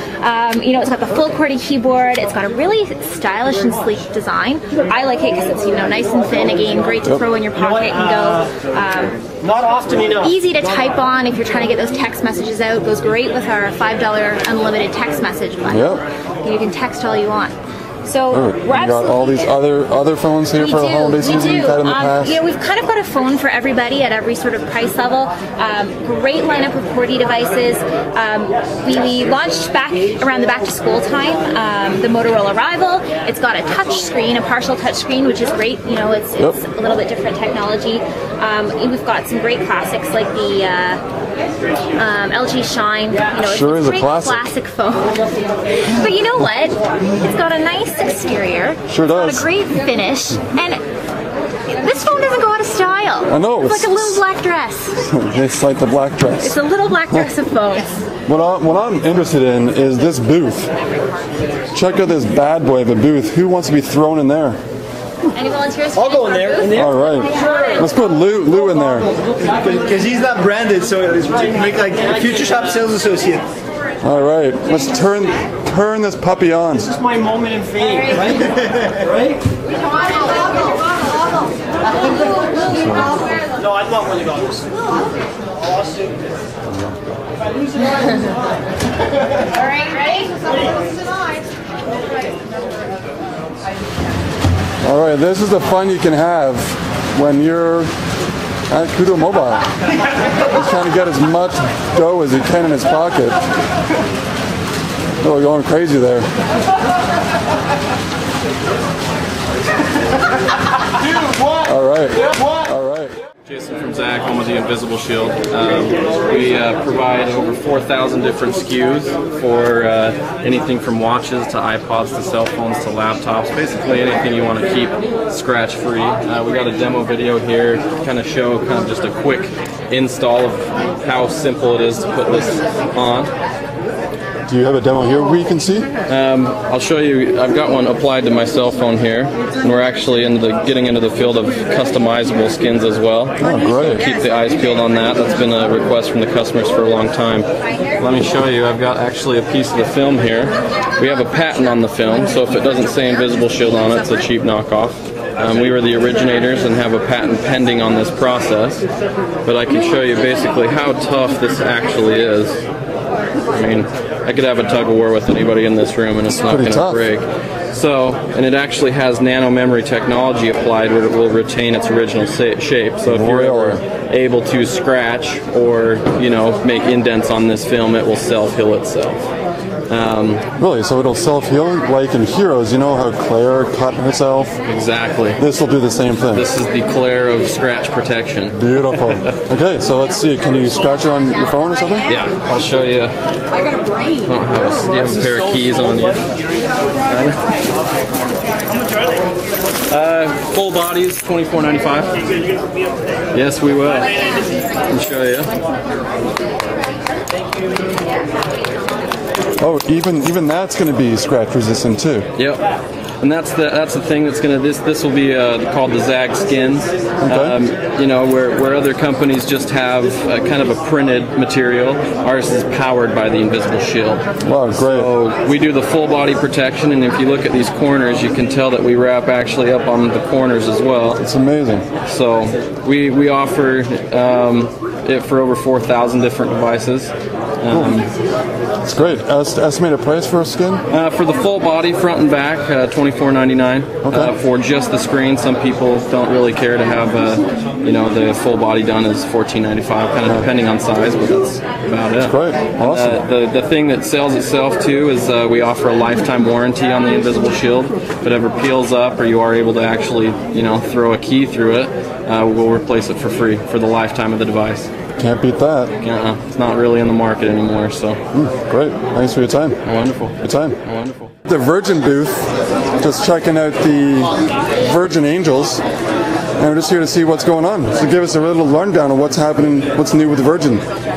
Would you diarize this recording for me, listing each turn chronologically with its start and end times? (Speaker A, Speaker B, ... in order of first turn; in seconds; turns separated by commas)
Speaker A: 0.2-9.3, Speaker B: 9.4-10.3, Speaker A: 10.2-19.5, Speaker C: 15.7-16.0, Speaker C: 18.3-22.4, Speaker A: 20.6-41.0, Speaker A: 42.0-45.2, Speaker C: 43.4-44.5, Speaker A: 45.8-50.8, Speaker C: 48.9-49.5, Speaker A: 51.7-55.0, Speaker C: 53.3-54.2, Speaker C: 55.0-56.6, Speaker A: 56.4-58.0, Speaker C: 58.3-60.7, Speaker C: 61.7-64.6, Speaker A: 65.3-67.8, Speaker C: 66.7-69.1, Speaker B: 69.4-73.4, Speaker C: 74.0-76.9, Speaker B: 76.9-79.3, Speaker C: 82.7-83.2, Speaker B: 83.6-84.6, Speaker B: 85.6-86.1, Speaker C: 86.7-87.0, Speaker A: 89.5-90.5, Speaker C: 94.8-97.9, Speaker C: 98.7-99.7, Speaker C: 100.5-103.4, Speaker C: 105.2-106.3, Speaker C: 111.6-113.1, Speaker D: 113.5-133.3, Speaker C: 134.5-135.9, Speaker D: 136.1-158.9, Speaker C: 143.4-144.0, Speaker D: 159.4-162.6, Speaker D: 163.5-179.3, Speaker C: 166.2-167.1, Speaker C: 173.1-173.8, Speaker D: 179.9-180.4, Speaker C: 180.6-184.6, Speaker D: 184.7-185.4, Speaker C: 185.4-186.4, Speaker D: 186.3-188.8, Speaker C: 188.5-192.1, Speaker D: 192.1-193.1, Speaker D: 194.2-196.3, Speaker D: 197.1-197.4, Speaker D: 199.9-202.2, Speaker D: 203.3-204.3, Speaker D: 204.9-205.5, Speaker C: 209.6-212.3, Speaker D: 212.3-212.6, Speaker D: 213.2-231.2, Speaker C: 217.2-217.6, Speaker C: 224.4-225.1, Speaker C: 231.2-231.9, Speaker D: 232.0-238.1, Speaker C: 237.7-238.0, Speaker C: 238.8-240.8, Speaker D: 240.9-264.9, Speaker C: 244.1-244.3, Speaker C: 252.2-253.2, Speaker C: 265.2-265.9, Speaker D: 266.0-268.2, Speaker C: 268.3-269.8, Speaker D: 269.8-271.3, Speaker C: 270.4-270.8, Speaker C: 271.4-275.8, Speaker C: 276.6-280.8